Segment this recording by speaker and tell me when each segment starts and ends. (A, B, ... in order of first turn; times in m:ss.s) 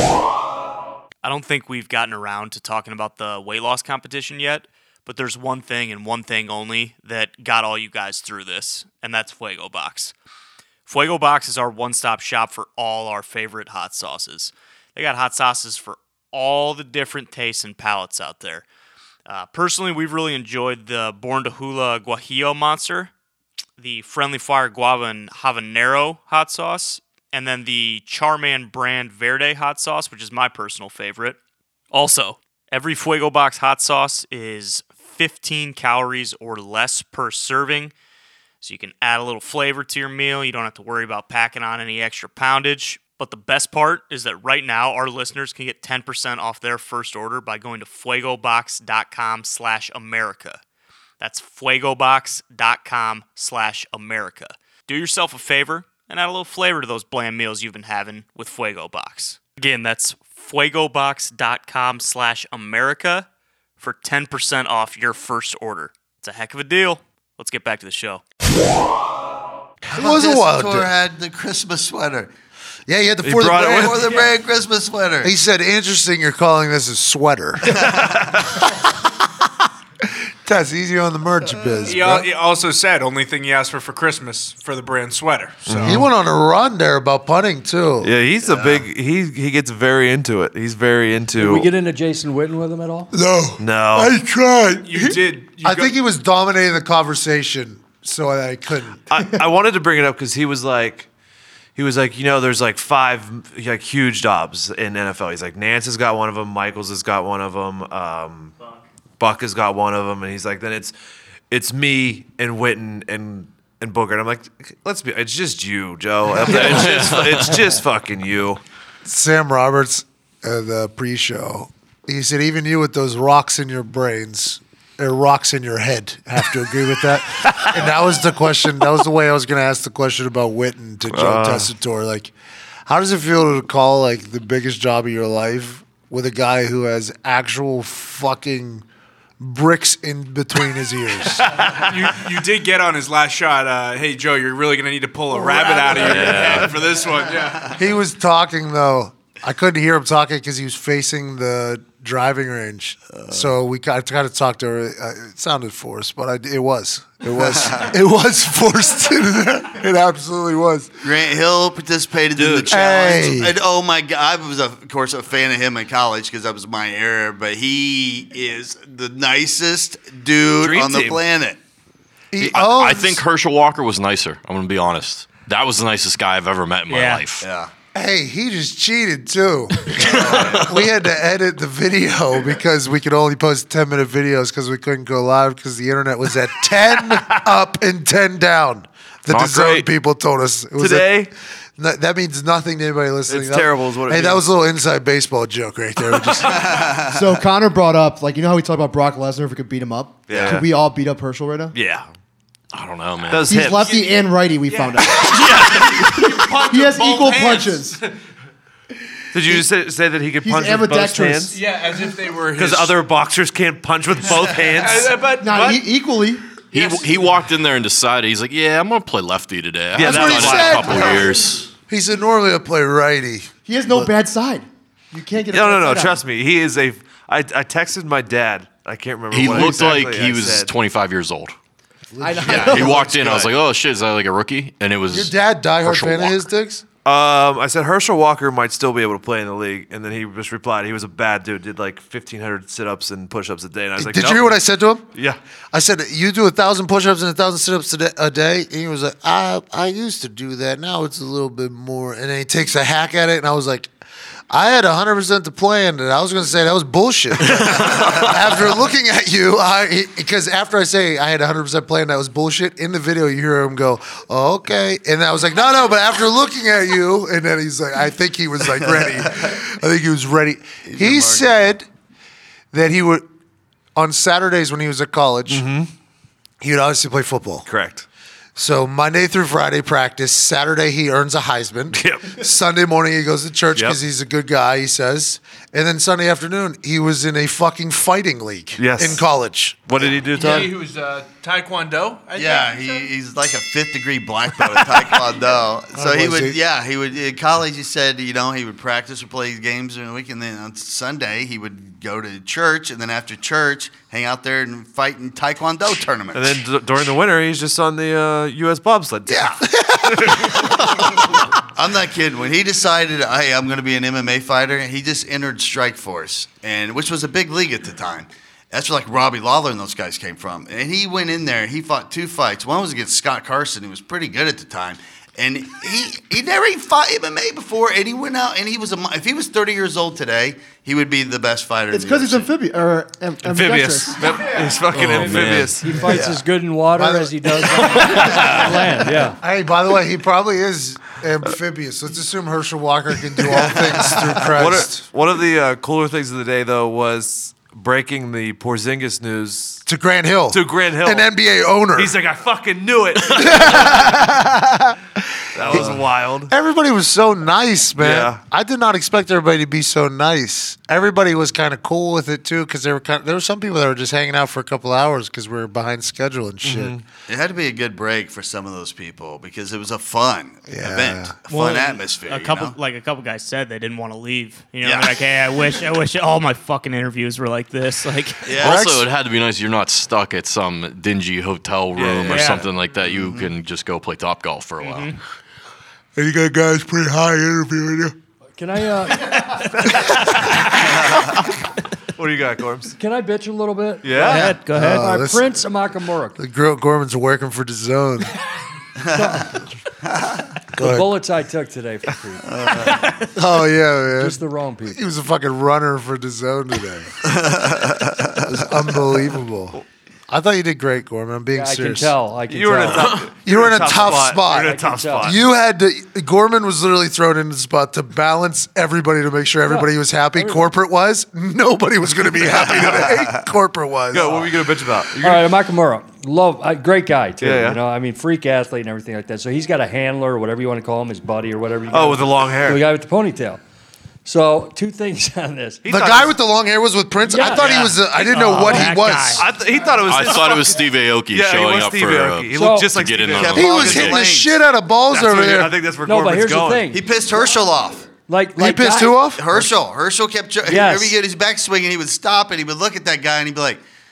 0:01.2-0:10.1 A
0:10.8-0:18.6 A
0:19.3-0:23.1 A
0:23.8-0:31.4 A
0:31.9-0:37.9 A
0:38.6-0:50.6 A
0:51.2-1:03.3 A
1:03.8-1:08.2 A
1:09.8-1:10.9 B
1:09.9-1:12.3 C
1:12.9-1:14.1 B
1:13.2-1:14.2 D
1:13.6-1:15.3 C
1:15.2-1:17.9 B
1:20.4-1:22.3 B
1:21.9-1:26.0 E
1:25.7-1:26.0 D
1:25.8-1:28.1 B
1:28.0-1:31.7 D
1:31.4-1:33.1 F
1:33.1-1:39.1 B
1:33.6-1:34.2 D
1:34.8-1:36.0 E
1:39.1-1:41.1 D
1:41.8-1:48.5 D
1:49.2-1:50.9 D
1:51.5-1:58.6 D
1:56.4-1:57.7 G
1:59.0-2:12.3 B
2:11.1-2:11.7 D
2:12.8-2:18.8 B
2:19.4-2:21.6 B
2:21.5-2:21.8 D
2:21.7-2:27.8 E
2:25.5-2:26.4 B
2:25.8-2:26.8 G
2:27.7-2:40.9 B
2:33.1-2:33.5 C
2:37.4-2:37.9 C
2:41.0-2:51.6 C
2:42.4-2:42.8 D
2:42.7-2:43.6 B
2:50.6-2:51.2 D
2:52.3-2:53.2 B
2:52.4-2:57.4 G
2:56.9-2:57.2 A
2:57.4-2:57.7 C
2:57.9-3:16.9 B
3:00.0-3:00.6 C
3:00.2-3:00.6 D
3:09.3-3:09.8 G
3:10.8-3:11.3 D
3:13.3-3:14.4 D
3:16.6-3:17.1 C
3:16.9-3:21.7 H
3:20.3-3:20.7 D
3:21.7-3:22.1 D
3:22.7-3:23.6 G
3:23.3-3:23.9 D
3:23.5-3:28.0 H
3:23.7-3:28.1 E
3:29.3-3:31.6 D
3:30.4-3:31.6 H
3:31.5-3:33.0 E
3:32.5-3:35.1 D
3:34.7-3:35.8 E
3:35.4-3:36.6 H
3:36.7-3:41.7 G
3:36.7-3:37.3 E
3:39.9-3:41.3 D
3:40.0-3:41.3 B
3:41.9-3:44.1 B
3:43.6-3:46.2 H
3:45.5-3:50.7 D
3:49.3-3:51.5 G
3:52.1-3:53.0 B
3:52.2-3:53.3 H
3:52.4-3:56.4 G
3:55.1-3:56.8 B
3:57.0-4:04.6 D
4:04.0-4:05.1 B
4:05.7-4:13.9 B
4:14.5-4:31.9 B
4:17.6-4:18.2 D
4:30.9-4:31.6 C
4:32.7-4:33.2 B
4:33.9-4:35.7 B
4:35.5-4:35.9 D
4:36.6-4:37.7 B
4:37.6-4:38.0 D
4:38.6-4:50.7 B
4:41.9-4:42.4 D
4:48.8-4:49.2 D
4:49.9-4:50.7 D
4:50.3-4:53.1 E
4:52.4-5:06.6 C
4:55.9-4:56.6 B
5:06.3-5:11.2 D
5:09.3-5:11.2 B
5:11.7-5:32.5 C
5:31.9-5:34.4 H
5:33.4-5:36.2 D
5:34.9-5:35.8 G
5:35.4-5:39.4 F
5:37.0-5:38.8 B
5:38.0-5:38.7 D
5:39.4-5:45.0 B
5:43.7-5:49.8 D
5:49.9-5:52.1 B
5:50.5-5:51.3 D
5:52.0-5:54.5 D
5:53.3-5:54.5 B
5:55.5-5:56.5 D
5:55.6-6:06.9 B
5:58.0-5:58.4 D
6:06.6-6:07.0 D
6:07.3-6:12.7 C
6:10.7-6:11.3 B
6:11.5-6:18.5 A
6:14.8-6:15.2 C
6:18.4-6:18.9 C
6:18.6-6:19.0 B
6:18.6-6:25.1 G
6:21.9-6:22.5 D
6:22.3-6:22.7 A
6:23.0-6:23.5 C
6:24.8-6:25.2 A
6:26.2-6:28.1 B
6:28.6-6:29.6 F
6:29.8-6:31.1 D
6:29.9-6:30.4 B
6:32.1-6:33.0 D
6:33.0-6:36.4 F
6:34.0-6:34.6 D
6:34.7-6:35.5 B
6:36.4-6:38.3 B
6:39.1-6:39.6 F
6:40.8-6:41.1 B
6:40.8-6:43.1 F
6:42.5-6:43.0 C
6:43.3-6:47.3 B
6:44.1-6:45.0 F
6:47.2-6:48.4 C
6:48.4-6:49.8 B
6:50.3-6:52.1 B
6:51.5-6:53.2 F
6:52.5-6:55.4 D
6:53.4-7:04.5 B
6:54.4-6:55.4 F
6:59.6-7:00.6 F
7:04.1-7:05.5 D
7:05.2-7:13.6 F
7:07.4-7:07.8 D
7:11.9-7:12.8 D
7:14.2-7:15.8 F
7:15.8-7:16.3 D
7:15.9-7:19.5 B
7:17.3-7:17.9 F
7:18.1-7:19.5 A
7:19.4-7:24.0 D
7:20.0-7:24.2 G
7:22.5-7:22.9 F
7:23.3-7:24.5 C
7:23.5-7:25.8 B
7:25.1-7:26.9 D
7:26.0-7:27.0 F
7:26.9-7:28.1 C
7:28.3-7:29.2 F
7:28.6-7:29.7 B
7:29.4-7:33.8 C
7:30.6-7:31.2 F